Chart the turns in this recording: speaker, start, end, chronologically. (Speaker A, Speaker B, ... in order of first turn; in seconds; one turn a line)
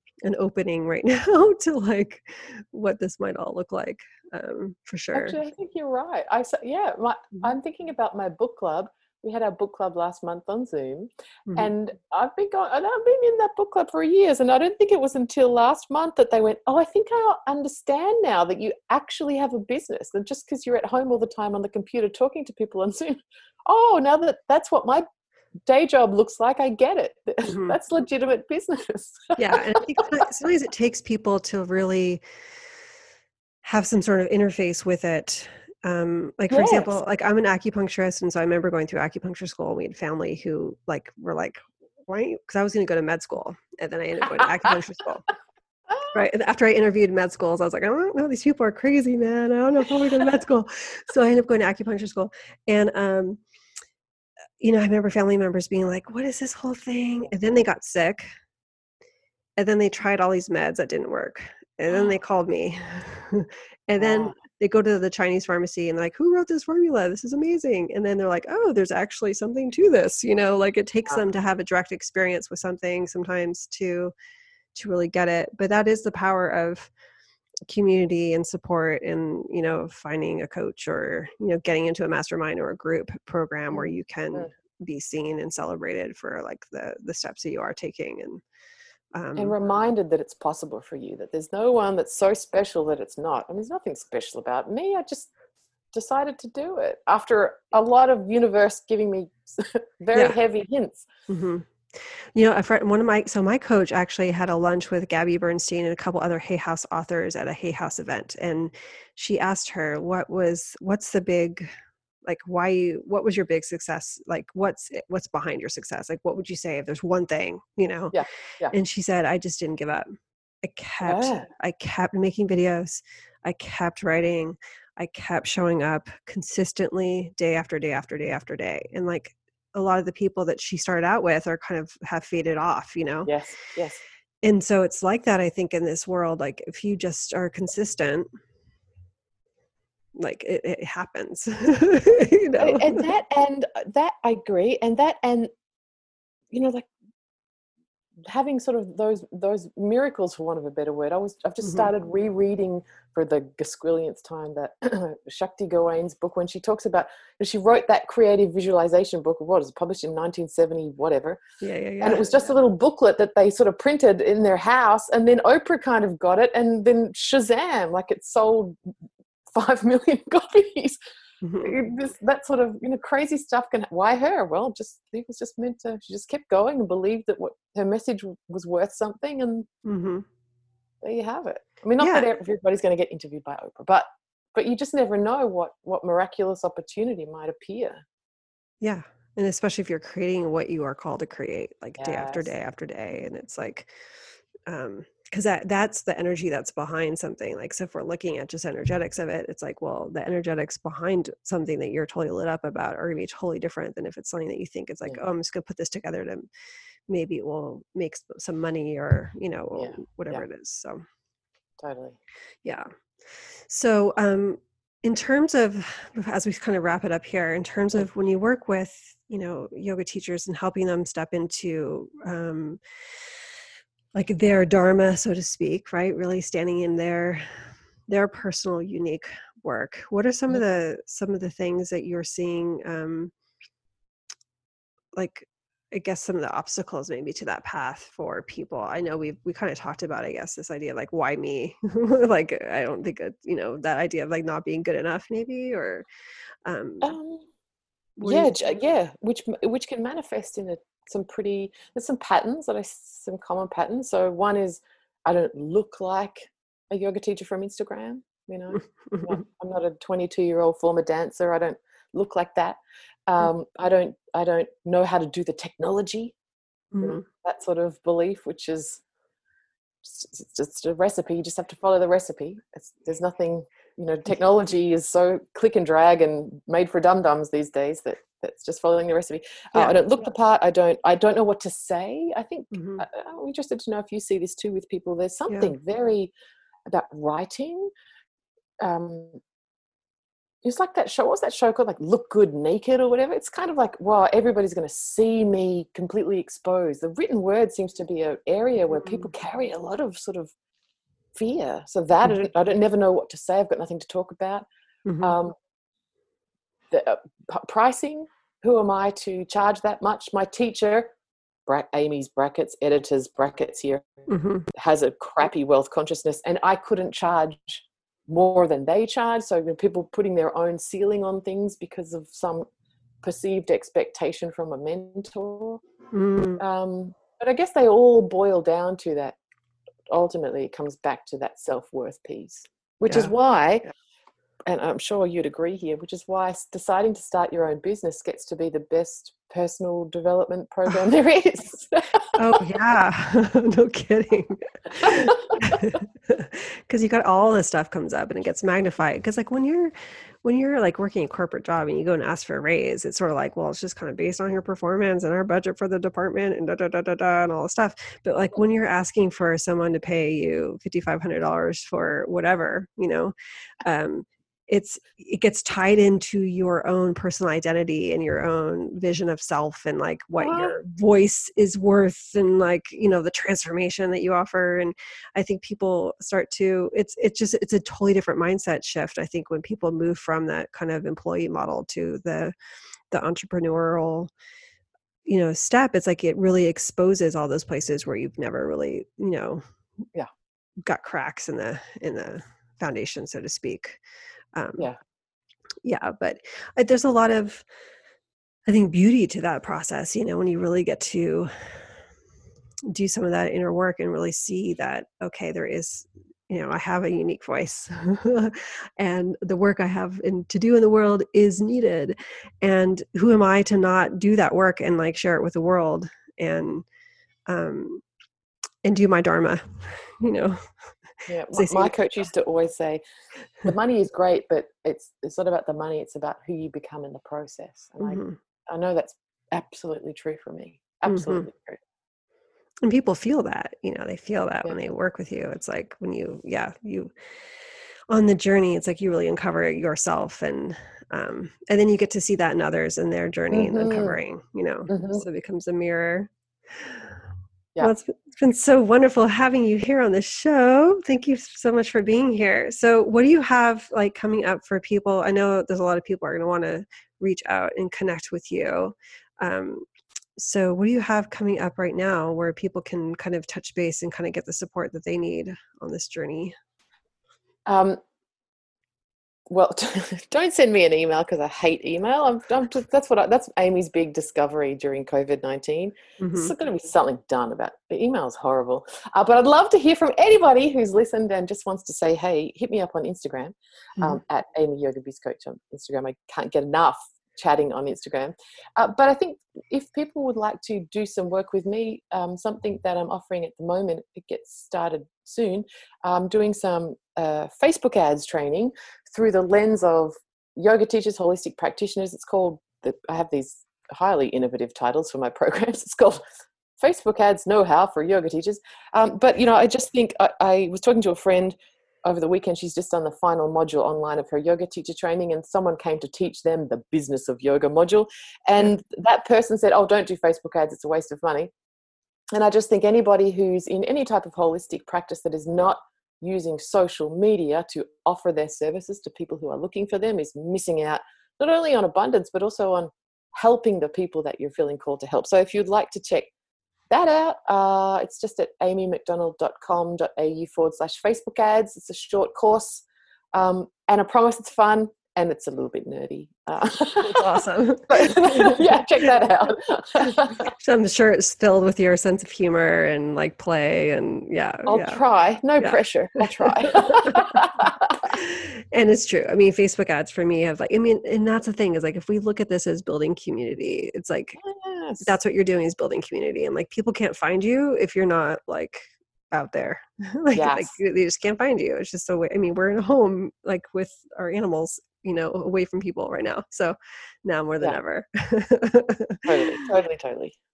Speaker A: 0.2-5.4
Speaker B: 5.1-25.1
Speaker B: 25.7-30.1
Speaker A: 27.4-27.8
Speaker A: 29.4-32.2
Speaker A: 33.6-45.2
Speaker B: 36.5-37.0
Speaker B: 45.9-46.1
Speaker A: 46.1-53.4
Speaker A: 54.6-58.3
Speaker A: 59.5-74.1
Speaker B: 64.0-64.4
Speaker A: 74.7-76.9
Speaker A: 77.7-88.4
Speaker B: 83.7-84.5
Speaker A: 89.1-89.5
Speaker B: 89.3-95.3
Speaker B: 95.9-101.1
Speaker A: 101.3-111.7
Speaker A: 112.2-118.2
Speaker B: 118.1-118.7
Speaker A: 118.7-120.1
Speaker A: 120.6-133.3
Speaker B: 121.0-121.5
Speaker B: 133.2-134.0
Speaker A: 134.4-138.3
Speaker A: 140.1-143.1
Speaker B: 142.6-145.5
Speaker B: 146.5-146.9
Speaker B: 148.2-161.4
Speaker A: 151.6-151.9
Speaker A: 161.6-162.4
Speaker B: 162.0-168.8
Speaker B: 169.5-171.0
Speaker A: 171.4-171.7
Speaker B: 171.6-179.7
Speaker A: 179.8-180.2
Speaker B: 181.0-188.0
Speaker A: 182.0-182.3
Speaker A: 188.8-193.9
Speaker B: 192.0-192.5
Speaker A: 194.7-206.5
Speaker A: 207.1-211.0
Speaker B: 209.8-210.4
Speaker B: 211.8-212.2
Speaker A: 212.6-222.8
Speaker A: 224.1-233.3
Speaker A: 235.1-246.0
Speaker A: 246.6-247.2
Speaker B: 247.0-247.4
Speaker A: 248.2-248.5
Speaker B: 248.2-266.4
Speaker A: 258.7-259.4
Speaker A: 266.9-267.2
Speaker B: 267.0-269.0
Speaker B: 270.0-286.3
Speaker A: 282.7-283.0
Speaker A: 285.5-285.7
Speaker B: 286.9-287.9
Speaker B: 288.8-289.4
Speaker B: 290.6-300.5
Speaker A: 299.0-299.3
Speaker B: 301.4-304.6
Speaker A: 305.0-305.4
Speaker B: 305.2-305.5
Speaker B: 306.9-311.1
Speaker B: 311.6-322.7
Speaker A: 314.3-314.7
Speaker B: 323.2-325.8
Speaker A: 326.1-326.6
Speaker B: 326.6-329.4
Speaker B: 330.1-333.9
Speaker A: 333.0-333.3
Speaker B: 334.7-342.3
Speaker A: 342.4-382.5
Speaker B: 344.9-345.8
Speaker B: 370.4-370.8
Speaker A: 383.1-384.3
Speaker A: 385.2-389.6
Speaker A: 390.8-394.0
Speaker A: 394.5-394.9
Speaker A: 395.8-397.6
Speaker A: 398.6-401.8
Speaker A: 402.9-416.9
Speaker A: 417.5-418.0
Speaker A: 418.8-422.0
Speaker B: 421.3-423.0
Speaker B: 423.6-431.8
Speaker A: 428.0-428.4
Speaker A: 431.0-431.5
Speaker A: 432.8-437.1
Speaker A: 438.1-447.2
Speaker B: 443.5-444.2
Speaker B: 444.9-445.2
Speaker A: 447.8-466.5
Speaker B: 467.7-468.0
Speaker B: 469.5-506.2
Speaker A: 476.2-476.5
Speaker B: 506.8-521.5
Speaker B: 522.4-536.3
Speaker B: 536.9-550.5
Speaker A: 547.0-548.7
Speaker A: 550.3-555.0
Speaker B: 554.7-558.0
Speaker A: 555.6-564.4
Speaker B: 564.4-565.1
Speaker A: 565.0-579.6
Speaker B: 570.4-570.8
Speaker B: 579.2-580.4